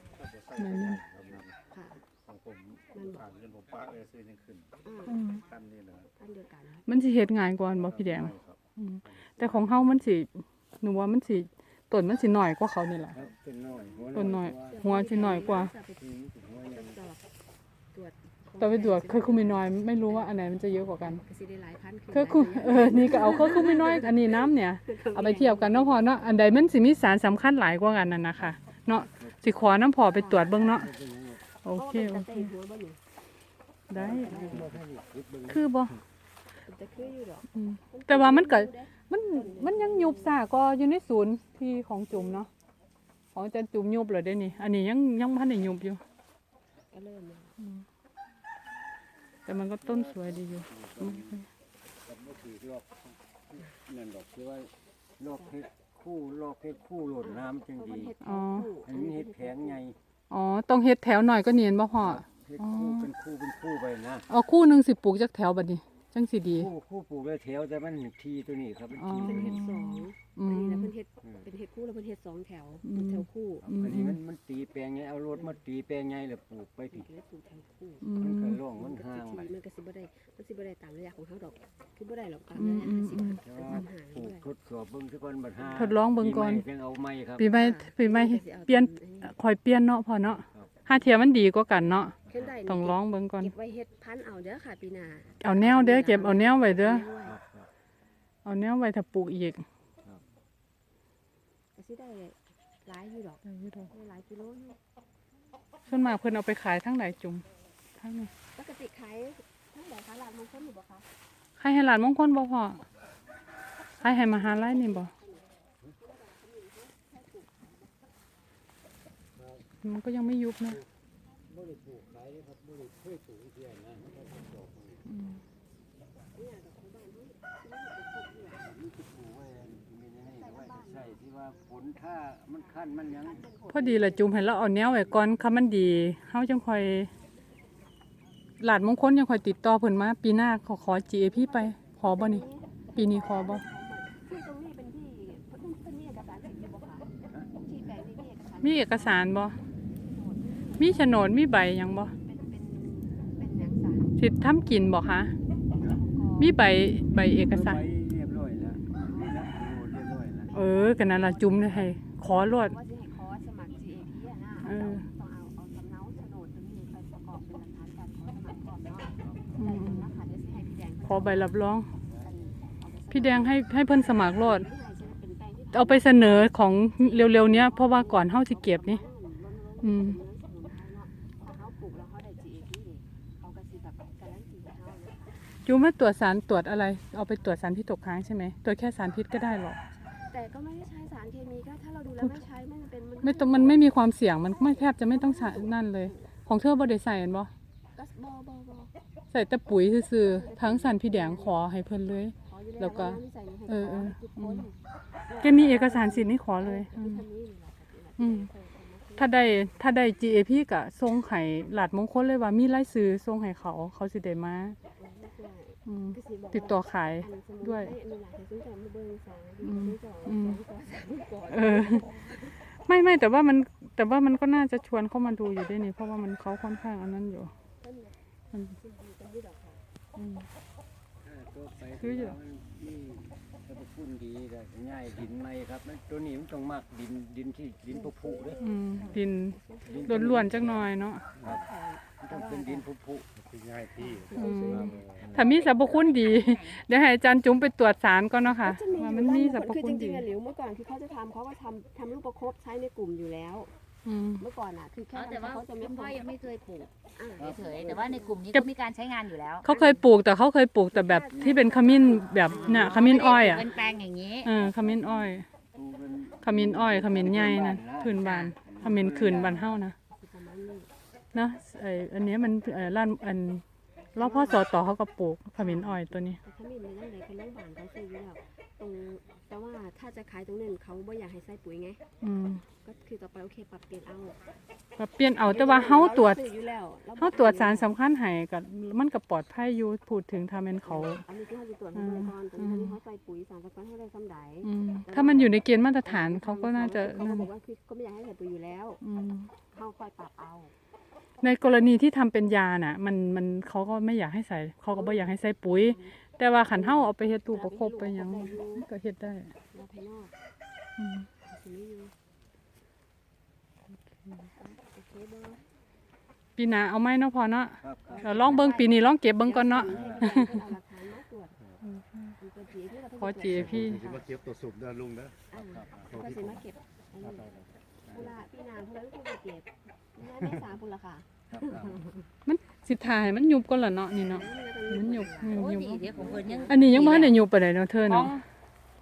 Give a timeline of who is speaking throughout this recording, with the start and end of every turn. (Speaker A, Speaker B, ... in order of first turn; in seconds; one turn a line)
Speaker A: 0.2-1.6
Speaker B: 0.6-1.0
Speaker C: 1.7-2.0
Speaker A: 2.2-4.7
Speaker C: 2.9-3.3
Speaker C: 4.8-5.2
Speaker B: 5.1-5.5
Speaker A: 5.4-6.1
Speaker C: 6.2-6.8
Speaker B: 6.9-13.2
Speaker A: 8.2-8.6
Speaker D: 13.1-17.0
Speaker B: 14.1-15.7
Speaker C: 14.7-16.0
Speaker C: 16.7-17.2
Speaker C: 17.9-20.4
Speaker B: 18.6-21.2
Speaker C: 21.0-24.2
Speaker B: 22.1-30.9
Speaker C: 24.9-26.2
Speaker D: 28.4-29.6
Speaker C: 30.1-30.5
Speaker D: 30.4-31.5
Speaker B: 31.6-32.5
Speaker C: 31.7-33.0
Speaker B: 33.9-34.5
Speaker D: 33.9-35.6
Speaker C: 34.0-34.7
Speaker B: 35.5-36.0
Speaker C: 36.6-40.4
Speaker B: 37.5-42.5
Speaker B: 43.3-46.0
Speaker C: 46.9-47.6
Speaker B: 47.6-47.9
Speaker B: 49.5-51.5
Speaker D: 49.8-51.4
Speaker D: 52.0-58.1
Speaker C: 57.2-59.8
Speaker B: 58.2-58.7
Speaker D: 58.9-60.0
Speaker B: 60.3-63.1
Speaker D: 62.0-64.3
Speaker B: 64.3-66.7
Speaker D: 66.5-69.6
Speaker B: 69.0-70.9
Speaker C: 69.2-73.7
Speaker B: 72.8-74.2
Speaker D: 73.6-77.1
Speaker C: 76.9-78.1
Speaker B: 78.0-78.6
Speaker D: 78.2-79.5
Speaker C: 78.8-84.5
Speaker B: 82.5-83.4
Speaker D: 83.4-87.5
Speaker B: 85.7-86.6
Speaker B: 87.4-93.5
Speaker C: 87.4-89.3
Speaker D: 92.3-92.5
Speaker C: 92.3-97.4
Speaker B: 95.4-97.1
Speaker D: 97.2-97.7
Speaker B: 98.5-99.7
Speaker C: 101.8-104.8
Speaker B: 103.5-103.9
Speaker B: 105.9-107.4
Speaker B: 108.0-108.3
Speaker C: 108.5-111.1
Speaker B: 111.6-112.8
Speaker B: 114.0-115.1
Speaker C: 114.0-117.9
Speaker D: 119.4-119.7
Speaker B: 119.8-120.8
Speaker D: 121.5-125.0
Speaker B: 125.0-125.4
Speaker C: 126.3-128.7
Speaker D: 128.6-133.4
Speaker C: 130.4-131.2
Speaker C: 132.7-135.3
Speaker B: 133.7-137.1
Speaker B: 138.6-142.4
Speaker C: 141.3-154.2
Speaker B: 142.9-143.6
Speaker B: 148.6-149.6
Speaker B: 150.8-152.1
Speaker B: 154.2-155.3
Speaker C: 155.8-157.1
Speaker B: 156.4-157.8
Speaker D: 157.4-160.5
Speaker C: 160.5-185.3
Speaker B: 160.6-162.7
Speaker B: 164.6-165.1
Speaker B: 169.6-170.1
Speaker B: 171.1-171.9
Speaker B: 173.1-174.7
Speaker B: 175.7-179.0
Speaker B: 179.8-180.2
Speaker B: 185.7-189.8
Speaker C: 189.9-196.3
Speaker B: 193.2-197.5
Speaker C: 197.9-198.9
Speaker B: 199.3-204.7
Speaker C: 200.1-201.7
Speaker C: 202.4-204.8
Speaker C: 205.3-210.1
Speaker B: 205.4-207.2
Speaker B: 208.2-208.5
Speaker B: 209.2-214.8
Speaker C: 214.9-222.7
Speaker B: 215.9-217.9
Speaker B: 219.6-220.6
Speaker B: 221.5-222.1
Speaker B: 222.6-227.5
Speaker C: 227.8-228.2
Speaker C: 228.7-229.8
Speaker B: 230.2-230.5
Speaker D: 231.2-239.2
Speaker B: 232.0-232.4
Speaker C: 237.9-240.1
Speaker B: 238.6-241.3
Speaker D: 239.8-241.6
Speaker C: 241.5-242.9
Speaker D: 242.2-244.1
Speaker A: 243.6-244.0
Speaker C: 244.0-245.2
Speaker B: 244.3-250.3
Speaker D: 244.7-245.4
Speaker E: 245.3-246.8
Speaker C: 248.4-253.7
Speaker B: 254.1-254.4
Speaker C: 254.4-256.3
Speaker E: 255.1-259.7
Speaker C: 257.1-258.4
Speaker D: 257.4-258.4
Speaker B: 259.6-263.7
Speaker C: 259.6-260.1
Speaker C: 260.9-264.1
Speaker D: 261.3-263.1
Speaker E: 262.4-264.5
Speaker B: 264.4-265.5
Speaker D: 264.6-269.8
Speaker B: 266.4-269.9
Speaker E: 268.1-268.6
Speaker C: 268.8-270.9
Speaker B: 271.3-273.6
Speaker C: 274.1-274.7
Speaker B: 274.2-276.4
Speaker C: 275.6-282.0
Speaker B: 282.2-282.6
Speaker C: 282.8-284.4
Speaker B: 285.0-286.4
Speaker C: 285.5-287.9
Speaker B: 287.2-291.2
Speaker C: 290.8-299.0
Speaker B: 291.9-292.9
Speaker B: 294.6-297.5
Speaker B: 299.0-299.5
Speaker C: 299.7-300.7
Speaker B: 301.4-309.5
Speaker C: 304.9-306.2
Speaker C: 306.7-308.9
Speaker C: 309.7-310.3
Speaker B: 311.0-311.3
Speaker C: 311.4-312.1
Speaker C: 314.6-315.6
Speaker B: 316.6-320.6
Speaker D: 317.8-318.8
Speaker C: 318.1-321.6
Speaker D: 319.9-320.3
Speaker B: 321.8-322.4
Speaker C: 322.4-324.2
Speaker B: 323.2-324.0
Speaker A: 323.8-325.4
Speaker C: 325.5-327.5
Speaker D: 325.5-326.3
Speaker D: 328.1-328.3
Speaker C: 328.1-332.2
Speaker D: 331.5-332.0
Speaker B: 332.5-338.3
Speaker C: 334.2-337.1
Speaker E: 335.5-337.4
Speaker E: 338.1-338.4